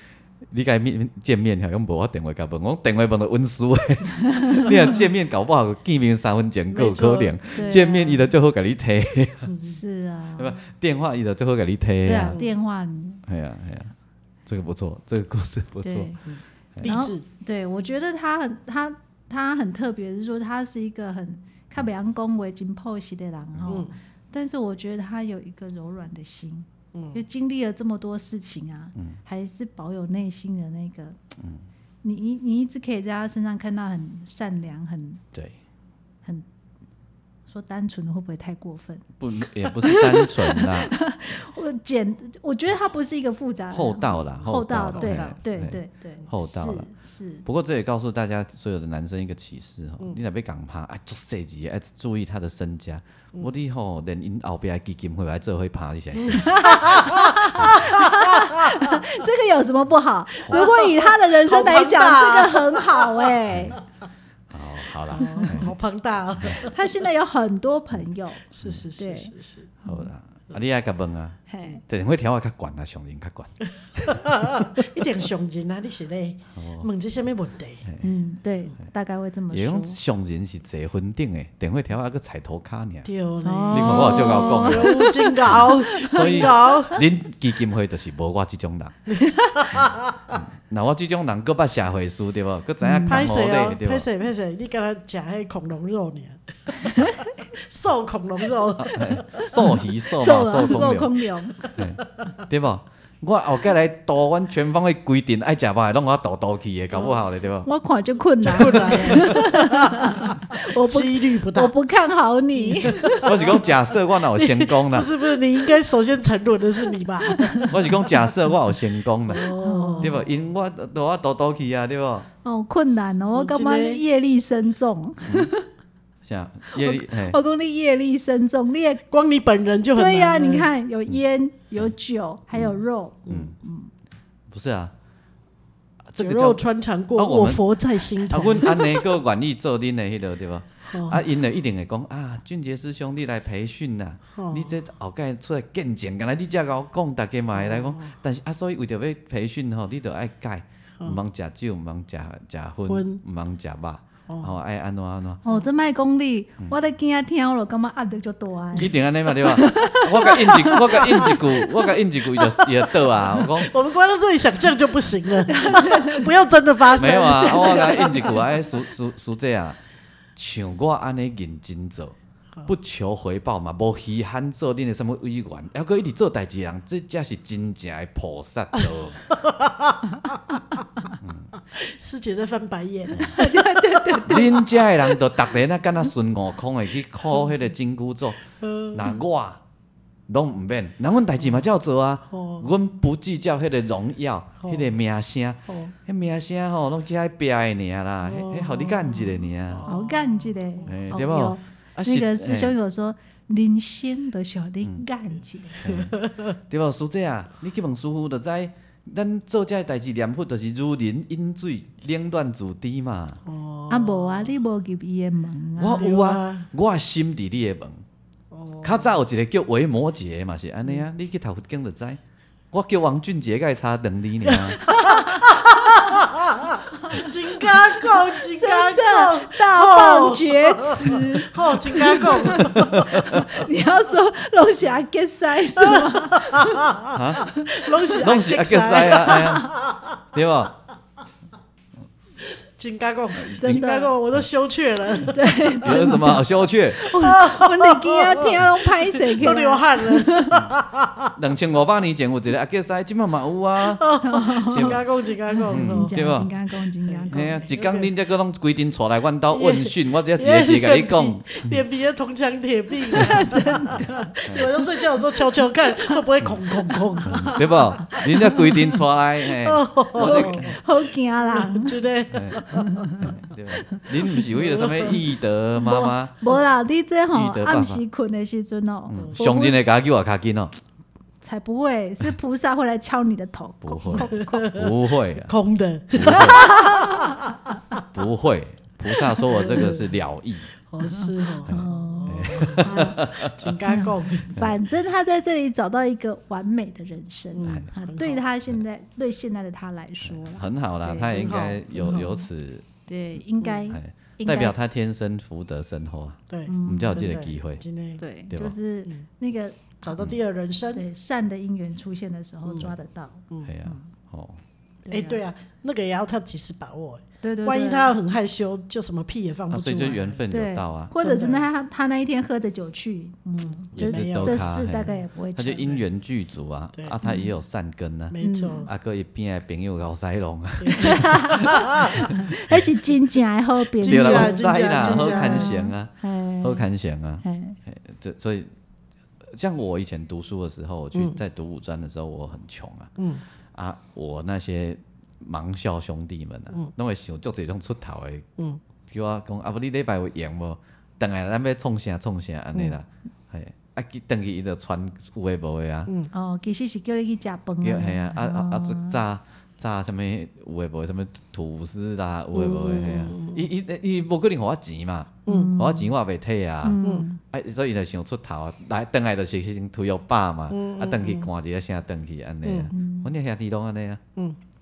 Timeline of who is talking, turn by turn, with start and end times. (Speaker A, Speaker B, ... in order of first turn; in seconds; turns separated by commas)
Speaker A: 0.5-9.5, Speaker B: 4.2-5.0, Speaker C: 6.7-7.8, Speaker B: 7.5-8.3, Speaker C: 9.5-9.8, Speaker B: 9.6-10.6, Speaker A: 10.4-12.4, Speaker B: 12.0-13.2, Speaker A: 13.2-13.9, Speaker A: 14.4-16.1, Speaker B: 15.8-16.2, Speaker C: 16.3-17.2, Speaker B: 16.8-31.2, Speaker A: 23.5-23.9, Speaker C: 23.7-23.9, Speaker C: 26.9-27.2, Speaker B: 32.0-35.2, Speaker B: 37.5-39.0, Speaker A: 39.2-41.0, Speaker B: 39.6-47.5, Speaker A: 43.7-46.9, Speaker C: 44.9-45.3, Speaker A: 47.4-57.9, Speaker C: 56.3-58.5, Speaker B: 56.3-63.8, Speaker C: 60.5-63.3, Speaker A: 63.5-63.8, Speaker A: 64.5-65.7, Speaker C: 65.1-66.9, Speaker B: 65.2-65.7, Speaker B: 66.6-69.3, Speaker C: 68.5-69.7, Speaker A: 69.8-74.7, Speaker B: 69.8-70.1, Speaker B: 71.5-71.8, Speaker C: 74.0-77.8, Speaker A: 76.5-76.9, Speaker A: 77.8-78.1, Speaker B: 78.0-80.0, Speaker A: 79.5-83.1, Speaker C: 83.0-87.0, Speaker B: 83.4-86.8, Speaker A: 83.7-89.0, Speaker C: 89.1-90.3, Speaker B: 89.2-89.6, Speaker A: 89.7-94.1, Speaker B: 92.8-93.3, Speaker C: 93.0-99.8, Speaker B: 96.8-97.2, Speaker A: 98.8-101.1, Speaker B: 99.4-101.6, Speaker A: 101.7-107.7, Speaker B: 107.6-113.3, Speaker A: 108.4-109.3, Speaker C: 108.6-111.7, Speaker C: 112.5-117.8, Speaker A: 113.2-115.1, Speaker B: 117.3-117.7, Speaker A: 117.7-119.5, Speaker C: 119.3-120.2, Speaker B: 119.4-120.2, Speaker A: 120.0-122.3, Speaker B: 122.4-125.7, Speaker C: 123.3-124.0, Speaker A: 125.2-125.5, Speaker A: 126.2-127.4, Speaker B: 126.7-129.0, Speaker C: 129.1-130.7, Speaker B: 129.9-133.9, Speaker A: 133.3-133.5, Speaker A: 134.5-134.9, Speaker A: 136.1-136.6, Speaker C: 136.2-138.9, Speaker A: 137.2-137.6, Speaker A: 138.2-155.4, Speaker C: 140.9-141.2, Speaker C: 144.4-144.7, Speaker C: 147.6-148.1, Speaker C: 152.9-153.2, Speaker C: 154.3-154.6, Speaker B: 155.4-161.0, Speaker A: 158.7-163.7, Speaker C: 160.2-161.7, Speaker C: 162.3-168.4, Speaker B: 165.5-166.3, Speaker B: 166.9-168.4, Speaker A: 166.9-169.8, Speaker A: 170.3-179.2, Speaker C: 179.3-180.4, Speaker B: 180.5-181.1, Speaker A: 181.2-181.5, Speaker C: 181.7-185.1, Speaker B: 183.2-184.6, Speaker A: 184.2-189.6, Speaker C: 188.6-189.1, Speaker A: 190.3-199.8, Speaker C: 192.3-192.7, Speaker C: 194.6-194.9, Speaker C: 195.7-195.9, Speaker C: 198.2-200.9, Speaker B: 199.8-205.9, Speaker A: 200.8-202.7, Speaker A: 205.8-213.4, Speaker C: 205.8-206.6, Speaker C: 213.5-214.6, Speaker B: 213.9-216.1, Speaker A: 215.8-218.0, Speaker C: 216.0-216.7, Speaker C: 218.5-219.1, Speaker A: 218.8-222.2, Speaker A: 222.7-224.9, Speaker C: 224.5-233.3, Speaker B: 224.8-226.1, Speaker B: 226.9-236.9, Speaker A: 232.6-233.4, Speaker C: 235.8-240.2, Speaker A: 237.1-237.5, Speaker B: 237.5-237.9, Speaker A: 238.2-239.7, Speaker A: 240.3-240.7, Speaker C: 242.7-246.3, Speaker A: 243.4-243.8, Speaker B: 243.6-244.1, Speaker B: 245.3-250.6, Speaker A: 245.8-247.0, Speaker C: 247.1-251.3, Speaker A: 251.3-254.0, Speaker C: 253.9-256.5, Speaker B: 254.2-257.7, Speaker A: 254.7-255.0, Speaker A: 255.7-256.5, Speaker C: 257.1-258.1, Speaker A: 257.3-261.8, Speaker C: 259.5-268.9, Speaker B: 263.1-264.9, Speaker A: 264.5-264.7, Speaker B: 265.9-269.0, Speaker A: 267.2-270.7, Speaker C: 269.5-270.8, Speaker B: 270.2-272.0, Speaker C: 271.4-273.1, Speaker A: 272.3-272.6, Speaker B: 272.6-275.2, Speaker A: 273.2-276.3, Speaker C: 274.4-275.2, Speaker B: 275.8-279.8, Speaker A: 277.3-278.0, Speaker A: 279.1-280.7, Speaker C: 279.2-279.5, Speaker B: 281.4-284.6, Speaker A: 283.8-285.5, Speaker C: 284.1-288.0, Speaker A: 286.1-286.7, Speaker B: 286.3-287.6, Speaker A: 288.1-290.7, Speaker C: 289.3-290.1, Speaker C: 290.9-294.5, Speaker B: 291.0-300.6, Speaker A: 291.7-293.7, Speaker A: 294.5-294.8, Speaker C: 297.5-298.4, Speaker A: 297.6-297.9, Speaker A: 300.2-302.9, Speaker C: 301.1-302.2, Speaker B: 301.9-302.5, Speaker B: 303.1-304.7, Speaker A: 303.9-307.8, Speaker C: 306.5-308.2, Speaker B: 306.6-307.3, Speaker B: 308.2-310.3, Speaker C: 310.0-311.0, Speaker B: 310.9-314.1, Speaker A: 313.6-314.6, Speaker B: 315.1-315.4, Speaker C: 315.1-320.4, Speaker B: 317.4-318.2, Speaker A: 319.7-321.1, Speaker B: 320.5-326.0, Speaker C: 321.2-321.7, Speaker C: 323.6-324.7, Speaker A: 323.9-332.8, Speaker B: 327.2-327.5, Speaker C: 328.3-328.9, Speaker B: 328.4-328.9, Speaker C: 330.8-332.1, Speaker B: 330.9-336.9, Speaker C: 334.0-335.8, Speaker A: 334.0-338.7, Speaker B: 337.4-337.8, Speaker A: 339.5-343.1, Speaker A: 343.7-348.5, Speaker A: 349.1-356.1, Speaker B: 356.3-359.2, Speaker A: 357.8-374.2, Speaker C: 362.5-363.7, Speaker C: 365.5-365.7, Speaker B: 365.5-366.1, Speaker B: 366.8-367.4, Speaker C: 370.7-371.5, Speaker C: 372.6-372.9, Speaker B: 372.9-373.3